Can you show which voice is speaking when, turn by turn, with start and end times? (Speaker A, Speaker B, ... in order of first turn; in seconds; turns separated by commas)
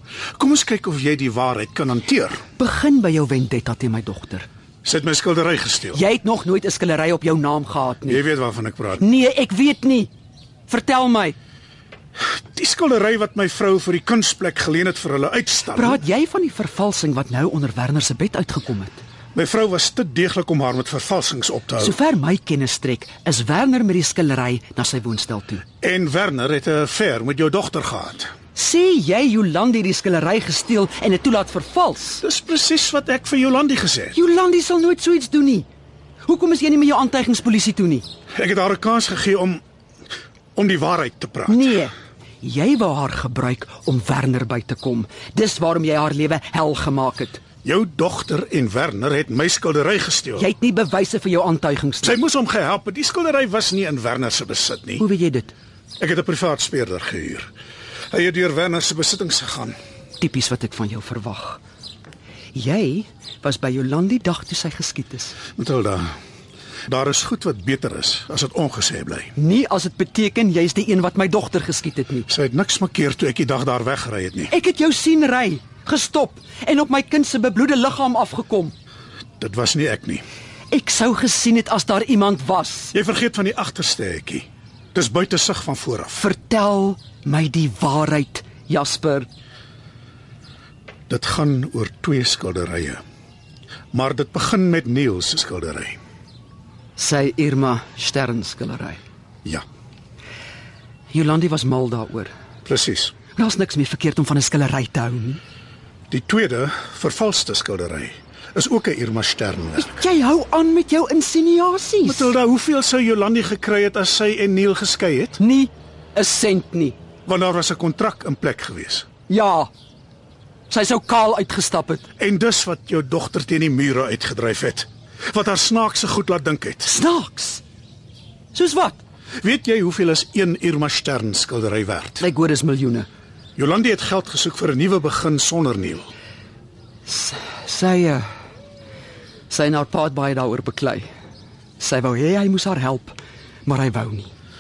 Speaker A: 0.4-2.4, Speaker B: 2.6-4.5, Speaker A: 4.8-6.0, Speaker B: 5.9-8.2, Speaker A: 8.1-9.1, Speaker B: 9.0-10.1, Speaker B: 10.7-11.4, Speaker A: 12.2-16.0, Speaker B: 15.7-19.0, Speaker A: 19.3-21.9, Speaker B: 21.8-25.6, Speaker A: 25.8-28.3, Speaker B: 28.6-32.2, Speaker A: 32.2-34.2, Speaker B: 34.1-35.7, Speaker B: 36.3-38.1, Speaker A: 38.4-39.6, Speaker A: 40.5-41.8, Speaker B: 41.5-47.4, Speaker A: 47.6-50.5, Speaker B: 50.4-52.2, Speaker A: 52.0-55.0, Speaker B: 55.0-55.5, Speaker A: 56.0-57.5, Speaker A: 58.1-59.8, Speaker B: 60.2-61.6, Speaker B: 62.5-65.4, Speaker A: 65.6-66.1, Speaker A: 66.9-69.3, Speaker B: 69.4-72.3, Speaker A: 72.3-74.5, Speaker B: 74.5-78.8, Speaker A: 79.4-80.2, Speaker B: 80.7-83.0, Speaker A: 82.9-86.2, Speaker B: 86.2-89.3, Speaker A: 91.1-93.0, Speaker A: 93.9-96.0, Speaker B: 97.0-99.0, Speaker B: 101.1-102.3, Speaker A: 102.7-103.1, Speaker B: 103.4-105.4, Speaker A: 106.1-110.0, Speaker B: 109.8-112.3, Speaker A: 112.0-115.4, Speaker B: 115.4-117.0, Speaker A: 117.3-119.1, Speaker B: 119.3-119.7, Speaker B: 120.7-122.1, Speaker A: 122.2-126.9, Speaker B: 126.8-127.6, Speaker B: 128.5-129.0, Speaker A: 129.4-132.3, Speaker B: 132.2-133.1, Speaker A: 133.6-136.1, Speaker B: 137.1-138.3, Speaker B: 139.5-141.1, Speaker B: 141.8-144.3